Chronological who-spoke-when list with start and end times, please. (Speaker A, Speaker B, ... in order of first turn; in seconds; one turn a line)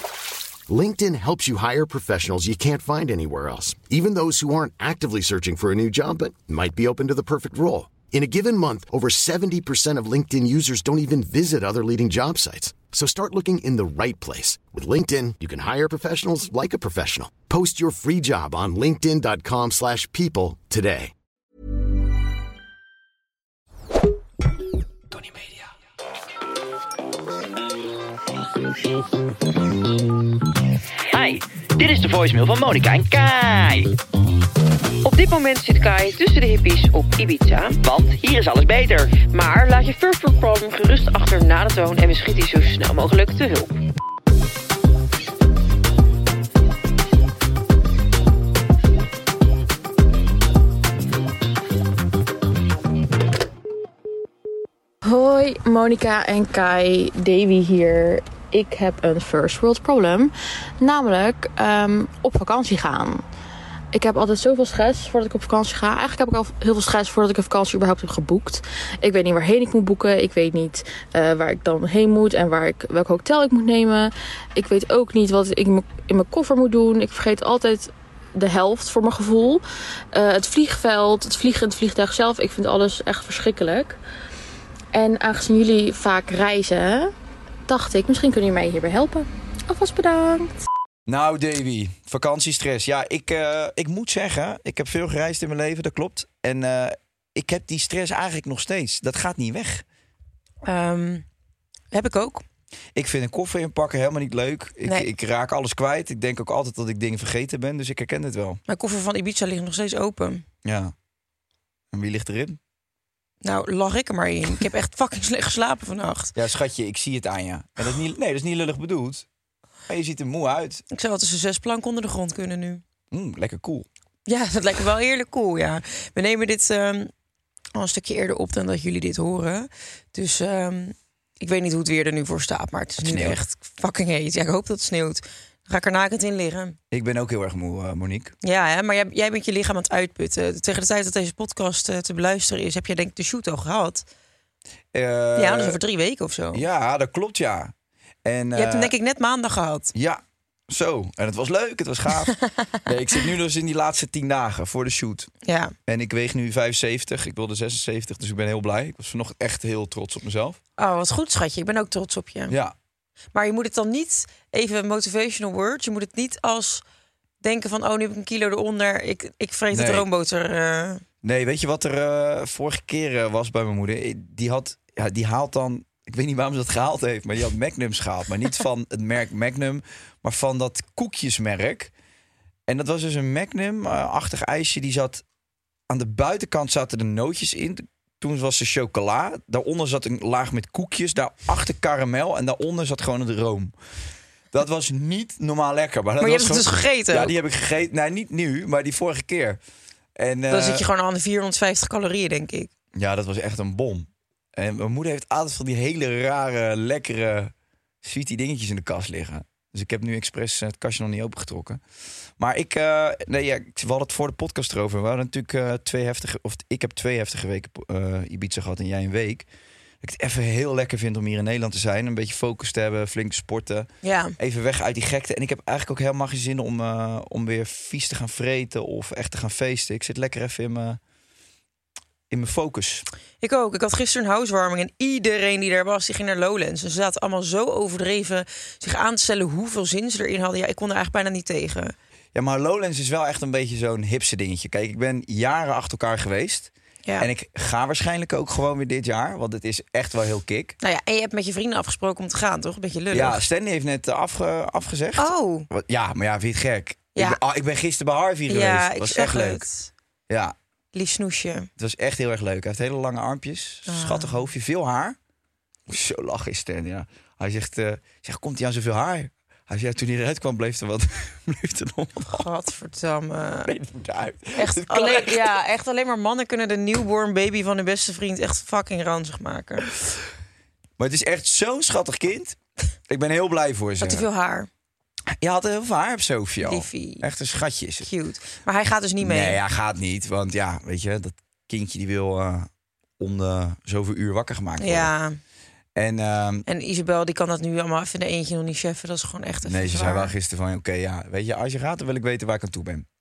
Speaker A: 0.7-21.1
Speaker B: 31.1-33.9
Speaker C: 35.0-37.8
Speaker B: 37.8-39.1
Speaker C: 39.2-43.8
Speaker D: 55.0-63.2
Speaker D: 63.9-84.0
Speaker D: 84.9-87.1
Speaker D: 87.7-90.5
Speaker E: 91.1-99.8
Speaker C: 100.7-101.3
Speaker C: 101.9-102.4
Speaker E: 103.0-108.6
Speaker C: 108.7-110.5
Speaker E: 110.6-110.9
Speaker E: 111.9-112.6
Speaker C: 113.4-116.3
Speaker E: 116.3-119.3
Speaker E: 119.9-120.8
Speaker C: 120.9-122.8
Speaker E: 123.1-123.9
Speaker C: 124.3-127.1
Speaker C: 127.8-136.8
Speaker E: 133.0-133.4
Speaker E: 136.9-138.3
Speaker C: 138.4-144.1
Speaker E: 144.9-145.8
Speaker C: 145.4-146.6
Speaker E: 146.5-148.9
Speaker C: 148.6-149.9
Speaker E: 149.9-152.3
Speaker E: 152.8-155.3
Speaker C: 155.4-155.7
Speaker E: 155.9-160.6
Speaker C: 160.8-162.6
Speaker E: 162.5-162.8
Speaker C: 163.3-166.8
Speaker C: 167.4-171.0
Speaker E: 169.7-170.1
Speaker E: 171.2-181.9
Speaker E: 182.7-185.2
Speaker E: 185.9-193.8
Speaker E: 194.5-199.6
Speaker C: 196.2-197.3
Speaker E: 200.2-200.8
Speaker C: 200.5-202.7
Speaker E: 202.9-211.8
Speaker E: 212.4-219.5
Speaker E: 220.0-231.0
Speaker C: 224.0-224.4
Speaker E: 232.3-233.1
Speaker C: 233.4-241.9
Speaker E: 242.3-250.8
Speaker C: 250.8-253.4
Speaker E: 253.1-259.6
Speaker C: 255.2-255.7
Speaker C: 257.1-257.4
Speaker C: 258.5-259.9
Speaker E: 260.3-260.6
Speaker C: 260.9-261.7
Speaker E: 261.8-265.2
Speaker C: 263.9-264.4
Speaker E: 265.9-272.5
Speaker C: 272.3-273.7
Speaker E: 273.6-275.6
Speaker C: 274.6-279.9
Speaker E: 281.0-282.6
Speaker E: 283.1-284.3
Speaker C: 284.0-284.7
Speaker E: 285.4-288.1
Speaker C: 286.6-287.2
Speaker C: 288.0-289.6
Speaker E: 289.2-295.1
Speaker C: 294.8-295.4
Speaker E: 295.9-296.7
Speaker C: 296.7-300.3
Speaker E: 299.6-303.1